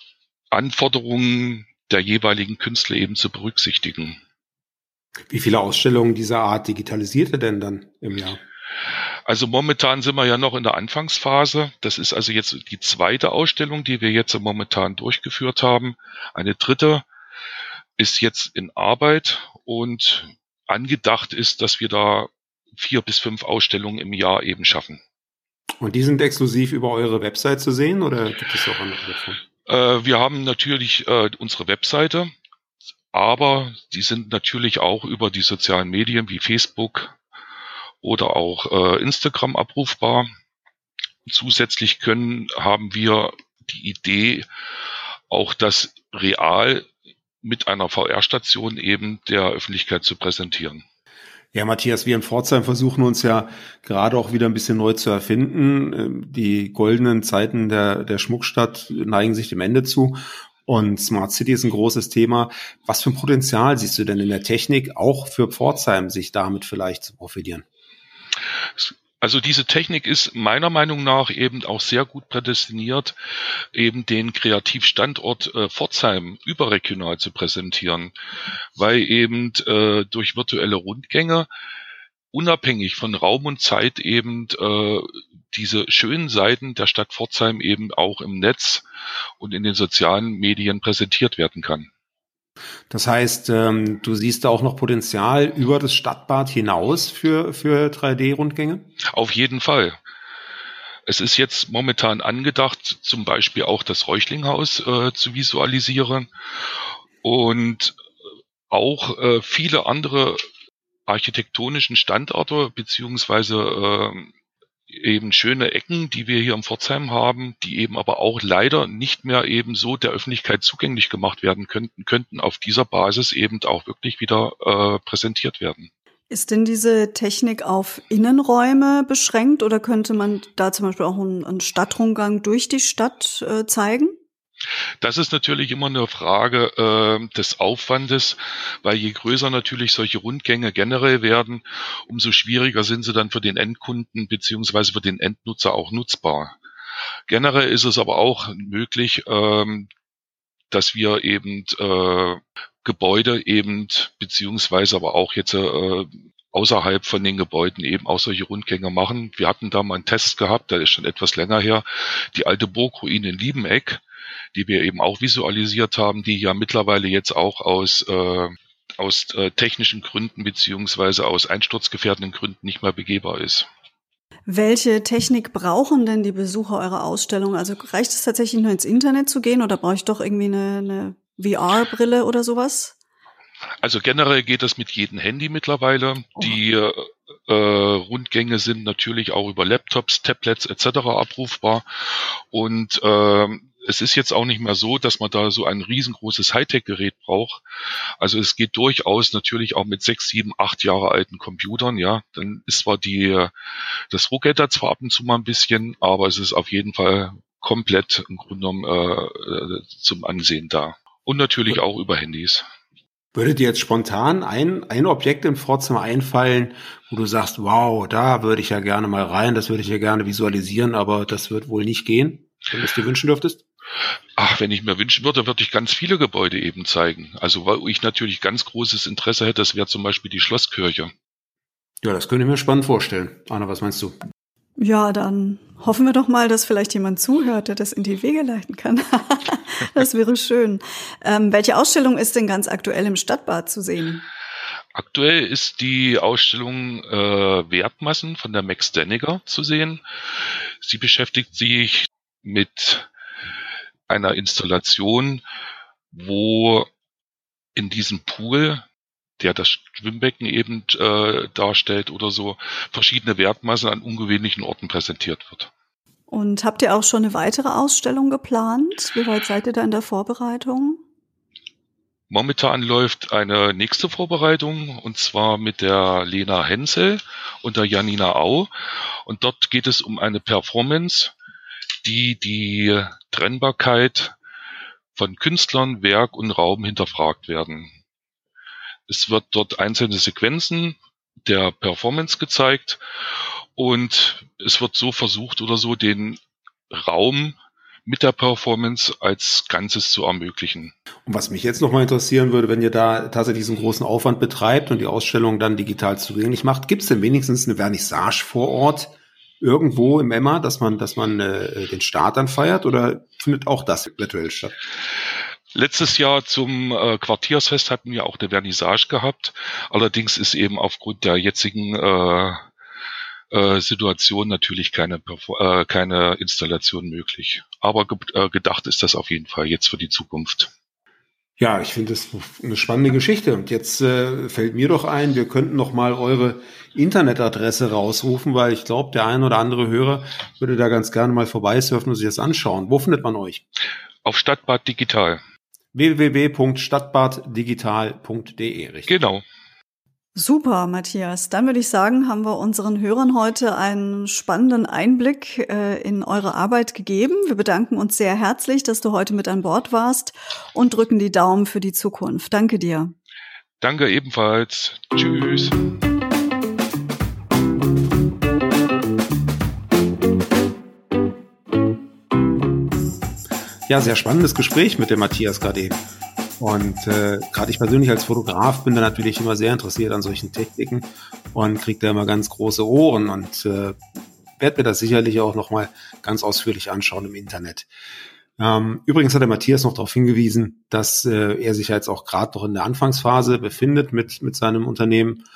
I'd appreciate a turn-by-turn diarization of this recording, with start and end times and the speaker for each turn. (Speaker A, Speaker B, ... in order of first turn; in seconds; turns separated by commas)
Speaker A: 0.5-4.2, Speaker B: 5.3-8.4, Speaker A: 9.3-17.1, Speaker A: 18.0-25.0, Speaker B: 25.8-29.4, Speaker A: 29.7-32.3, Speaker A: 33.1-37.2, Speaker A: 38.0-40.3, Speaker A: 41.3-44.5, Speaker A: 45.3-46.9, Speaker A: 47.4-50.8, Speaker B: 51.5-67.7, Speaker A: 68.8-73.2, Speaker A: 73.7-78.1, Speaker A: 78.8-81.5, Speaker A: 82.3-88.8, Speaker A: 89.4-91.9, Speaker B: 92.9-98.9, Speaker A: 99.1-100.0, Speaker A: 101.1-106.3, Speaker A: 107.2-108.0, Speaker A: 108.7-110.4, Speaker A: 111.1-114.3, Speaker A: 114.9-125.9, Speaker C: 126.3-134.2, Speaker A: 135.0-146.6, Speaker A: 147.3-149.9, Speaker A: 150.7-164.0, Speaker A: 164.5-173.7, Speaker C: 174.5-182.9, Speaker A: 183.8-197.6, Speaker A: 198.2-203.5, Speaker A: 204.1-212.7, Speaker B: 213.3-223.6, Speaker A: 224.4-231.1, Speaker B: 232.0-234.2, Speaker C: 234.8-244.2, Speaker A: 244.9-250.0, Speaker A: 250.8-253.1, Speaker A: 254.1-255.4, Speaker A: 256.1-256.9, Speaker A: 257.8-258.9, Speaker A: 259.4-265.7, Speaker C: 266.3-271.0, Speaker A: 272.3-278.7, Speaker A: 279.3-281.3, Speaker A: 282.0-284.4, Speaker A: 285.1-287.9, Speaker A: 289.1-293.0, Speaker A: 293.8-296.4, Speaker A: 296.9-300.9, Speaker B: 301.3-314.7, Speaker A: 315.7-322.6, Speaker A: 323.5-330.7, Speaker B: 331.6-343.6, Speaker A: 344.2-345.4, Speaker B: 345.9-349.1, Speaker A: 349.1-349.4, Speaker C: 350.4-363.1, Speaker A: 363.8-365.8, Speaker B: 373.9-376.0, Speaker B: 376.6-384.0, Speaker B: 384.6-387.9, Speaker B: 388.6-395.4